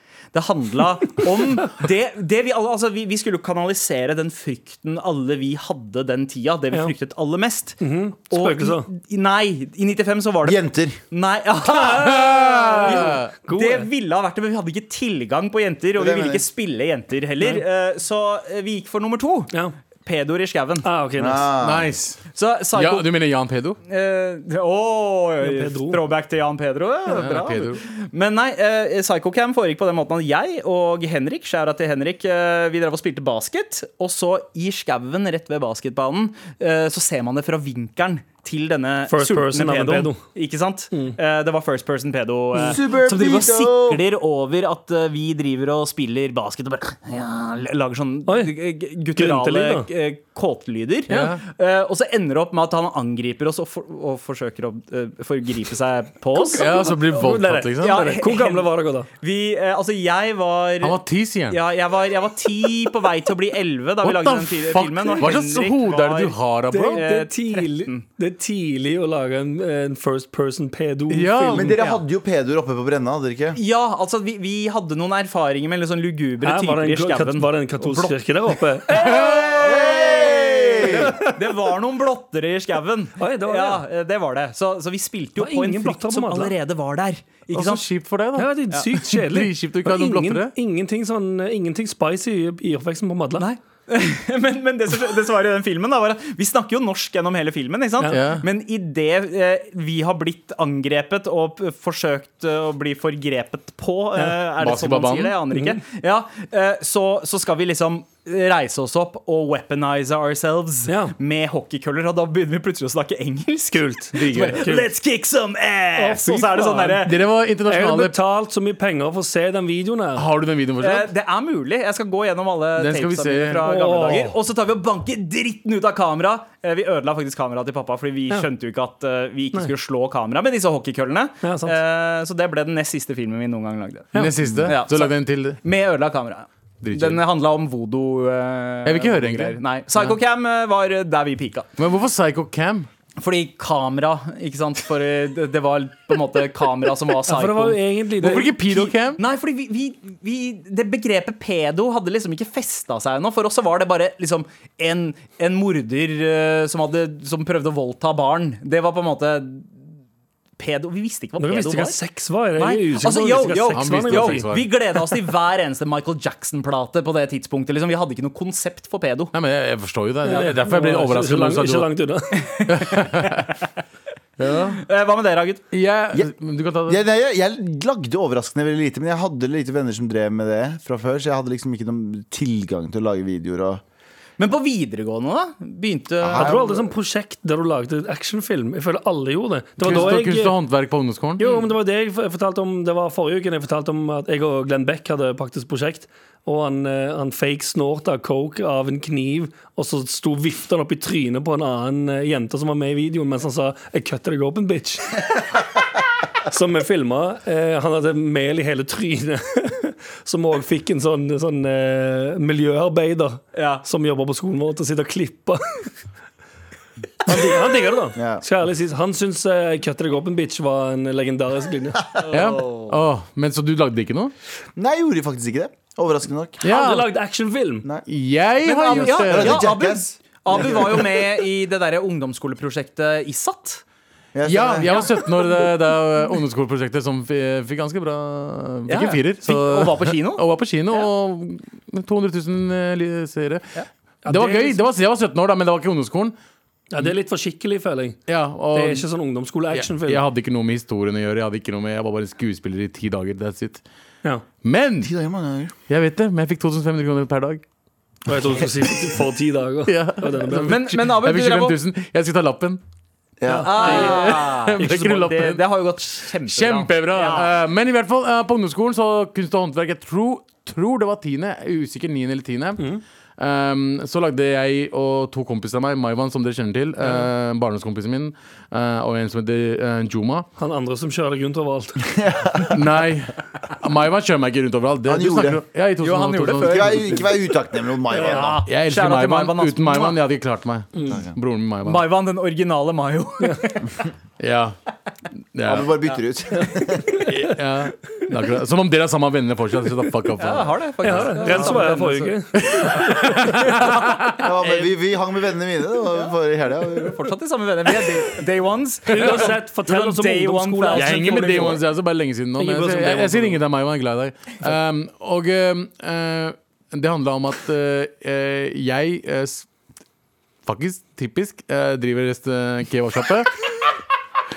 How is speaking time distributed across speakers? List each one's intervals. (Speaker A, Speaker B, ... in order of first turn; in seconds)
Speaker A: 0.3-7.8, 8.3-19.5, 20.1-20.9, 22.4-23.1, 23.9-56.9, 57.8-61.0, 61.5-66.4, 66.9-68.0, 73.5-78.2, 78.9-87.8, 93.4-117.2, 120.8-134.1, 134.7-141.7, 143.2-159.8, 160.6-162.0, 162.6-169.3, 172.4-173.5, 174.8-175.6, 184.4-186.6, 191.4-191.7, 213.5-213.8, 222.2-223.0, 228.6-233.8, 238.9-241.1, 260.6-261.8, 263.6-267.5, 286.0-287.5, 288.1-290.2, 291.8-293.9, 300.4-302.4, 306.1-311.8
Speaker B: 7.8-8.9, 12.8-13.9, 20.8-21.5, 25.4-26.0, 39.1-40.2, 40.9-41.2, 48.3-48.5, 49.2-49.9, 56.3-59.1, 66.7-71.8, 76.4-79.2, 80.8-81.5, 83.2-83.8, 85.4-86.5, 88.4-93.5, 110.9-111.2, 113.7-114.9, 116.0-117.1, 117.7-120.3, 123.6-124.3, 131.4-131.8, 134.1-134.7, 147.3-148.5, 161.4-164.5, 170.3-172.6, 186.4-190.6, 191.4-205.4, 206.4-215.9, 217.2-222.0, 226.7-227.9, 244.2-244.8, 246.9-248.2, 248.7-250.2, 258.3-260.8, 263.5-264.3, 272.8-273.0, 277.0-277.3, 280.6-282.1, 288.1-288.6, 291.0-291.2, 297.2-297.5, 301.0-303.9, 309.1-311.8, 312.6-313.6
Speaker C: 10.4-11.0, 16.0-16.4, 21.2-21.9, 42.7-44.0, 71.5-73.6, 79.3-81.1, 176.9-183.8, 186.2-186.9, 218.1-218.4, 224.8-226.7, 229.1-231.1, 234.3-235.0, 255.0-255.7, 263.4-263.9, 282.1-283.0, 285.1-285.6, 286.5-288.6, 291.1-291.4, 295.7-297.3, 304.4-307.2
Speaker D: 11.7-13.3, 21.6-22.2, 22.7-23.8, 27.1-27.8, 51.1-51.4, 56.6-58.0, 60.8-61.6, 64.0-67.0, 71.1-71.8, 87.5-90.5, 98.1-98.5, 104.6-105.3, 114.1-114.7, 117.0-118.2, 120.2-121.1, 122.8-124.2, 134.2-135.6, 136.8-137.2, 138.8-140.2, 141.8-142.9, 148.2-149.2, 163.7-164.7, 169.3-171.9, 172.7-173.5, 174.4-174.8, 175.7-177.0, 189.8-191.4, 222.3-224.3, 226.6-227.1, 228.1-229.7, 234.4-243.7, 244.3-246.3, 248.3-249.1, 249.7-253.8, 254.6-255.1, 255.9-257.6, 259.9-262.8, 263.8-265.6, 266.2-280.5, 282.7-287.2, 288.7-292.1, 294.4-294.7, 295.5-296.1, 297.3-301.9, 302.6-304.6, 309.2-309.5, 310.9-319.7, 320.7-323.6